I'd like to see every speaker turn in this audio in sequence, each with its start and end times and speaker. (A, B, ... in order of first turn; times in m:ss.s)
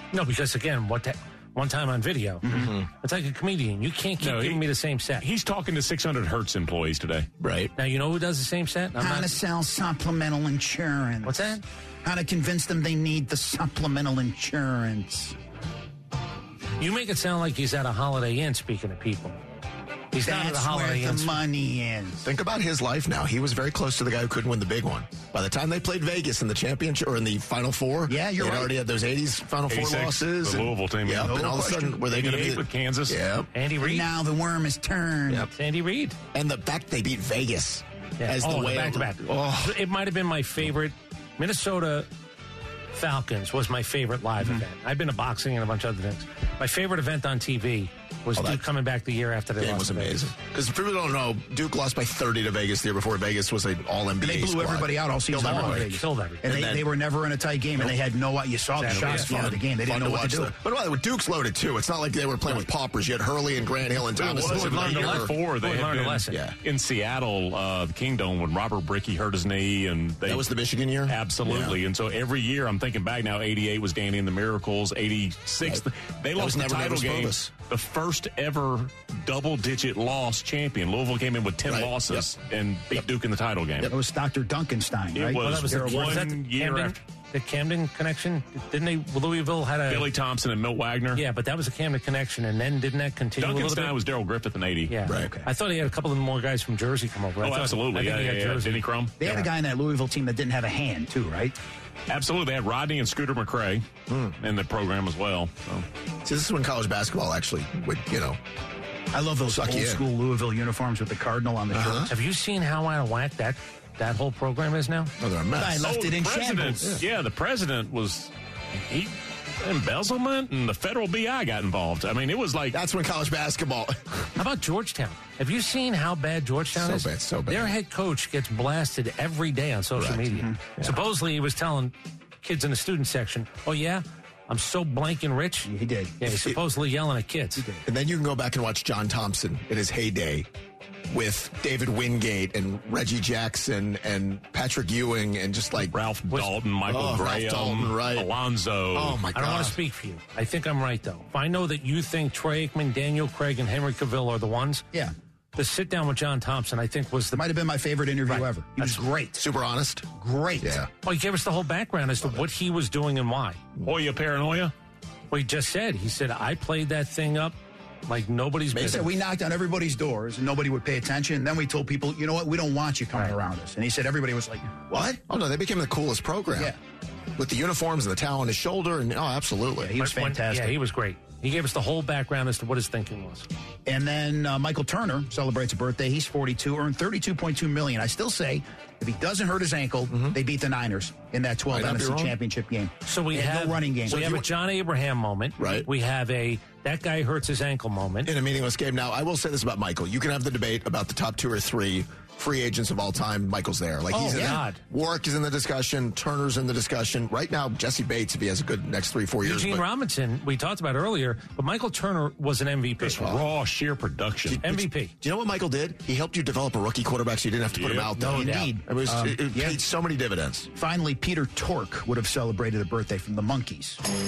0:00.1-0:05.3 A
0:02.4-0:02.7 B
0:02.5-0:02.8 C
0:04.2-0:04.6 D
0:05.2-0:07.3 D
0:07.4-0:07.7 C
0:07.8-0:09.4 A
0:09.0-0:15.4 B
0:11.2-0:11.6 A
0:16.8-0:19.4 A
0:20.1-0:21.4 A
0:20.2-0:22.3 B
0:22.2-0:33.5 C
0:28.0-0:28.7 B
0:29.7-0:33.2 D
0:31.1-0:32.0 B
0:33.5-0:34.1 A
0:33.8-0:35.5 B
0:35.5-0:36.2 A
0:36.3-0:39.8 C
0:38.2-0:42.1 A
0:42.9-0:50.3 A
0:48.3-0:48.6 C
0:49.6-0:56.9 C
0:54.2-1:00.6 B
0:55.4-0:56.5 A
0:58.8-0:59.5 A
0:58.8-1:05.3 C
1:04.2-1:10.5 D
1:04.2-1:06.4 A
1:06.3-1:06.6 C
1:10.2-1:11.8 C
1:11.1-1:23.9 D
1:16.3-1:17.5 C
1:21.7-1:22.3 C
1:23.9-1:26.3 B
1:25.1-1:27.0 D
1:25.4-1:30.1 A
1:29.9-1:31.2 D
1:31.1-1:34.0 A
1:33.4-1:34.9 D
1:34.9-1:39.5 A
1:35.0-1:35.3 C
1:35.1-1:35.5 B
1:37.4-1:39.2 D
1:39.2-1:41.6 B
1:42.1-1:45.8 D
1:44.1-1:44.4 C
1:46.2-1:48.4 C
1:49.1-1:52.1 B
1:49.5-1:50.0 C
1:51.7-1:52.1 C
1:52.1-1:55.1 A
1:55.2-1:55.8 C
1:55.6-1:57.0 B
1:55.8-1:58.3 D
1:58.9-2:02.8 D
2:02.7-2:04.3 C
2:04.4-2:17.6 A
2:06.7-2:07.8 C
2:09.9-2:11.0 C
2:10.3-2:10.6 B
2:15.6-2:16.2 B
2:16.2-2:16.6 C
2:17.6-2:17.8 B
2:17.8-2:20.5 C
2:21.1-2:25.9 C
2:25.8-2:29.2 D
2:26.9-2:28.3 C
2:28.9-2:29.8 C
2:29.3-2:34.8 A
2:35.5-2:37.4 A
2:37.3-2:39.5 B
2:38.3-2:39.0 A
2:39.4-2:40.1 C
2:40.2-2:40.8 B
2:40.6-2:40.9 C
2:41.0-2:43.6 A
2:42.2-2:42.4 C
2:43.8-2:44.7 D
2:45.3-2:47.6 A
2:48.1-2:49.1 A
2:48.7-2:49.1 C
2:48.8-2:54.9 B
2:54.9-2:56.7 C
2:57.4-2:59.9 C
2:59.8-3:00.8 B
3:00.0-3:03.5 A
3:03.8-3:14.4 B
3:11.7-3:12.3 C
3:13.0-3:18.3 A
3:14.1-3:14.5 C
3:15.6-3:15.9 C
3:18.2-3:29.8 C
3:24.1-3:24.8 A
3:24.1-3:24.6 B
3:29.4-3:33.3 A
3:33.0-3:33.4 C
3:33.2-3:34.6 D
3:34.4-3:40.7 C
3:34.6-3:35.1 A
3:37.7-3:38.1 D
3:38.2-3:38.8 A
3:38.2-3:39.8 B
3:40.7-3:44.0 B